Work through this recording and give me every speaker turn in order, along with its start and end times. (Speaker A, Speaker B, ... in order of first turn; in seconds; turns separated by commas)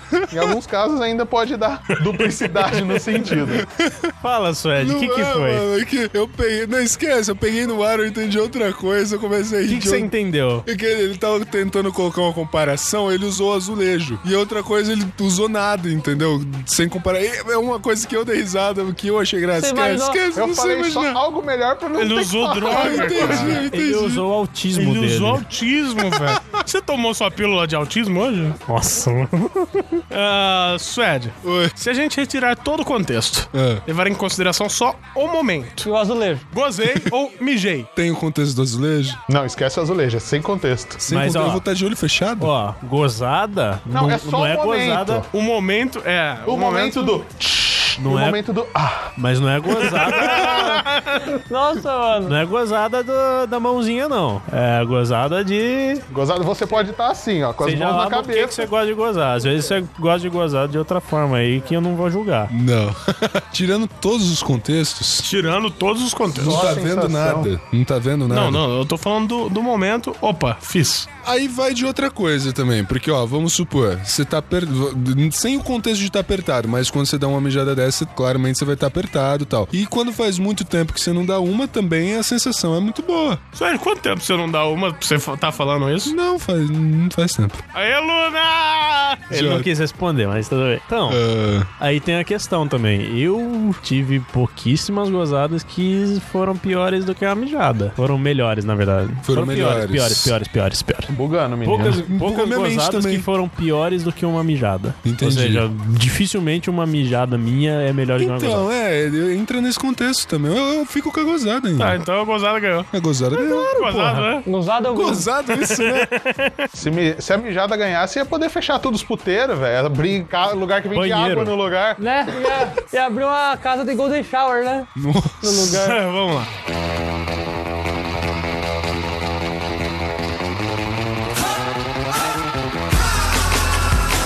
Speaker A: 0.3-3.6, Speaker B: 3.7-4.1, Speaker C: 4.2-5.7, Speaker B: 4.8-10.1, Speaker C: 9.7-10.7, Speaker B: 10.7-21.2, Speaker D: 19.5-20.2, Speaker A: 20.3-23.6, Speaker E: 22.0-23.6, Speaker B: 22.7-24.2, Speaker C: 23.5-25.4, Speaker E: 24.8-28.6, Speaker C: 28.7-29.9, Speaker E: 30.1-35.9, Speaker B: 31.4-31.7, Speaker B: 33.5-33.8, Speaker D: 35.8-36.5, Speaker E: 36.5-37.9, Speaker B: 38.0-39.2, Speaker A: 39.3-41.0, Speaker B: 41.0-42.5, Speaker C: 41.1-41.6, Speaker C: 42.4-45.2, Speaker A: 43.9-45.3, Speaker E: 45.3-47.2, Speaker A: 46.5-49.1, Speaker C: 48.0-48.4, Speaker C: 49.2-50.8, Speaker E: 49.8-51.3, Speaker D: 51.5-52.4, Speaker C: 52.2-56.0, Speaker A: 56.1-58.7, Speaker C: 57.6-62.5, Speaker B: 62.5-65.3, Speaker E: 65.2-66.7, Speaker A: 66.4-67.5, Speaker B: 66.4-68.6, Speaker E: 68.3-71.1, Speaker B: 71.2-83.4, Speaker E: 83.5-86.1, Speaker B: 86.1-87.6, Speaker E: 87.7-89.6, Speaker B: 89.3-89.7, Speaker C: 89.4-91.2, Speaker B: 91.1-91.7, Speaker C: 91.8-101.1, Speaker B: 99.2-100.3, Speaker A: 101.1-102.0, Speaker C: 101.6-108.7, Speaker B: 101.8-103.3, Speaker B: 105.0-105.7, Speaker B: 108.2-112.0, Speaker E: 111.8-112.9, Speaker B: 112.9-113.7, Speaker C: 113.4-114.3, Speaker E: 113.8-114.5, Speaker D: 114.5-115.3, Speaker B: 114.9-116.1, Speaker E: 115.6-116.7, Speaker A: 116.8-122.0, Speaker C: 120.9-121.5, Speaker D: 122.0-124.9, Speaker B: 125.0-125.7, Speaker D: 125.4-126.0, Speaker E: 125.7-126.5